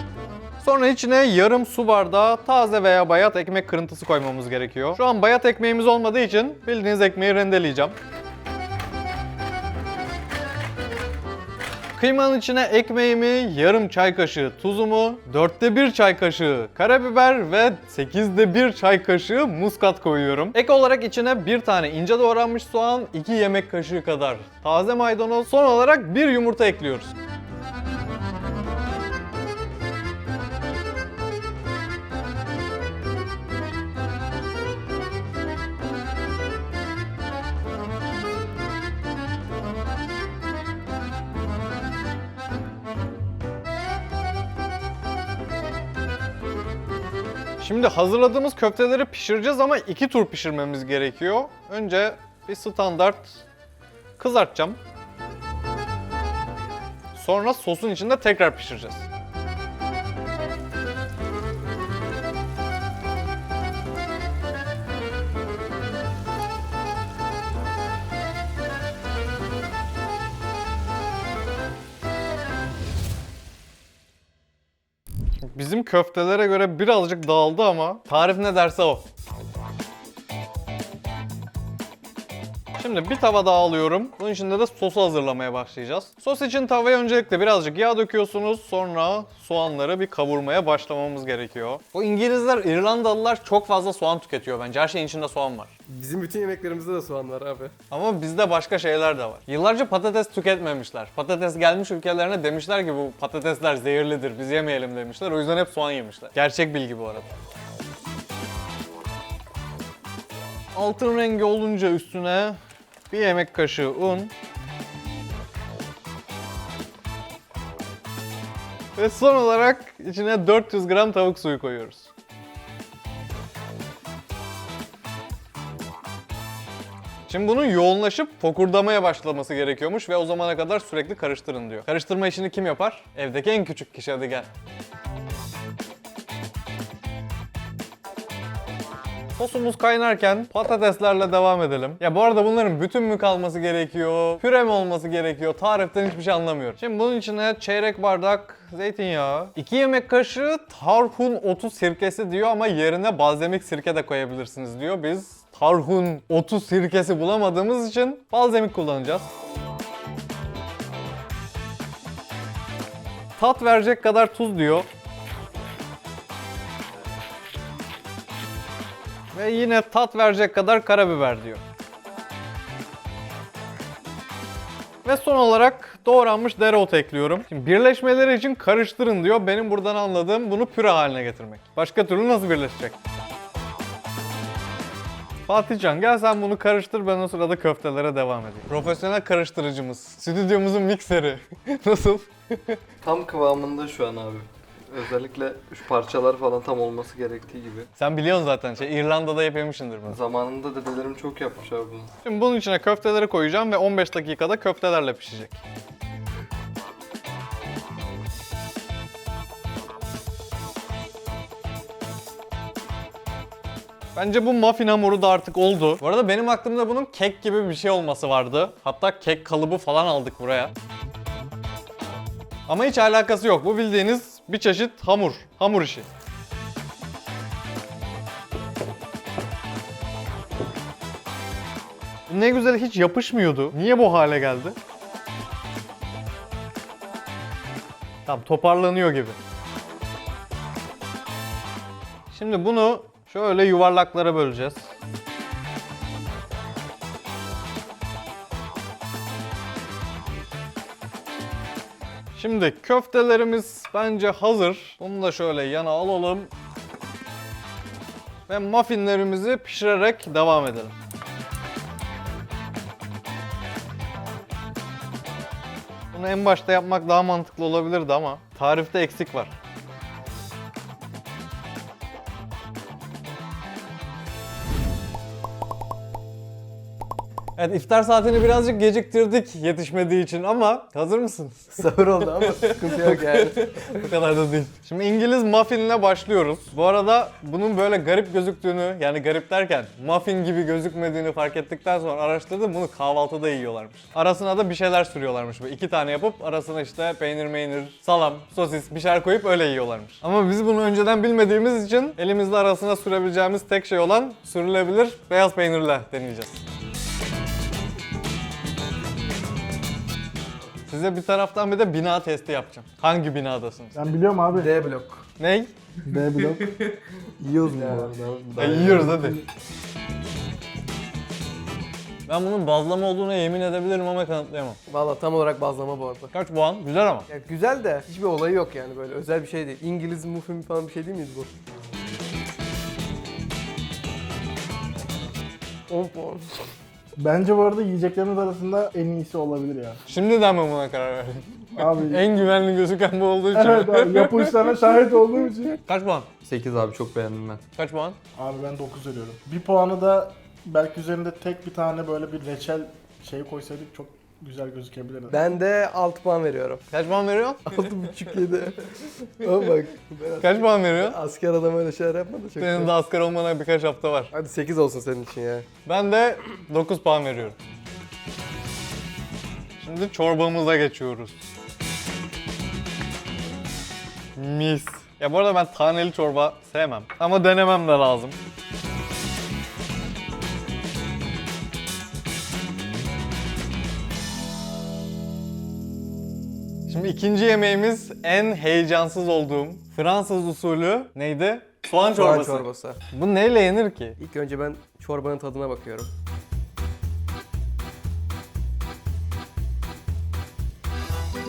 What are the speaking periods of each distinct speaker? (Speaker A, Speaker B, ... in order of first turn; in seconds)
Speaker A: 0.6-8.0, 12.0-27.1, 47.6-53.4, 54.2-54.8, 57.1-59.1, 75.5-79.1, 82.8-95.7, 97.9-107.3, 110.7-112.6, 113.1-114.3, 119.0-122.1, 127.3-134.5, 139.4-159.3, 163.4-164.9, 169.3-171.6, 175.0-183.0, 185.5-192.8, 198.0-200.2, 202.2-205.6, 214.2-220.7, 222.7-226.1, 232.3-234.8, 238.3-239.4, 242.3-244.9, 252.3-256.5, 258.5-261.0, 266.1-269.6, 277.6-281.9, 282.4-306.6, 310.9-314.0, 315.4-315.7, 318.6-319.4, 322.3-324.8, 326.3-327.3, 340.1-344.6, 345.9-346.3, 347.8-348.2, 356.9-357.9, 360.4-361.2, 362.6-364.3, 365.9-367.6, 369.8-371.4, 374.4-378.4, 386.9-394.2
Speaker B: 95.9-97.7, 281.7-284.0, 314.5-315.2, 317.6-318.1, 324.9-326.3, 327.3-331.5, 335.9-336.6, 355.3-356.9, 357.7-362.9, 364.3-365.7, 392.1-393.0, 394.2-396.1
Speaker C: 193.0-197.9, 200.1-202.1, 317.4-319.4, 346.4-347.6
Speaker D: 313.9-314.7, 316.1-316.7, 337.2-340.0, 341.8-342.3, 343.5-345.8, 348.4-355.4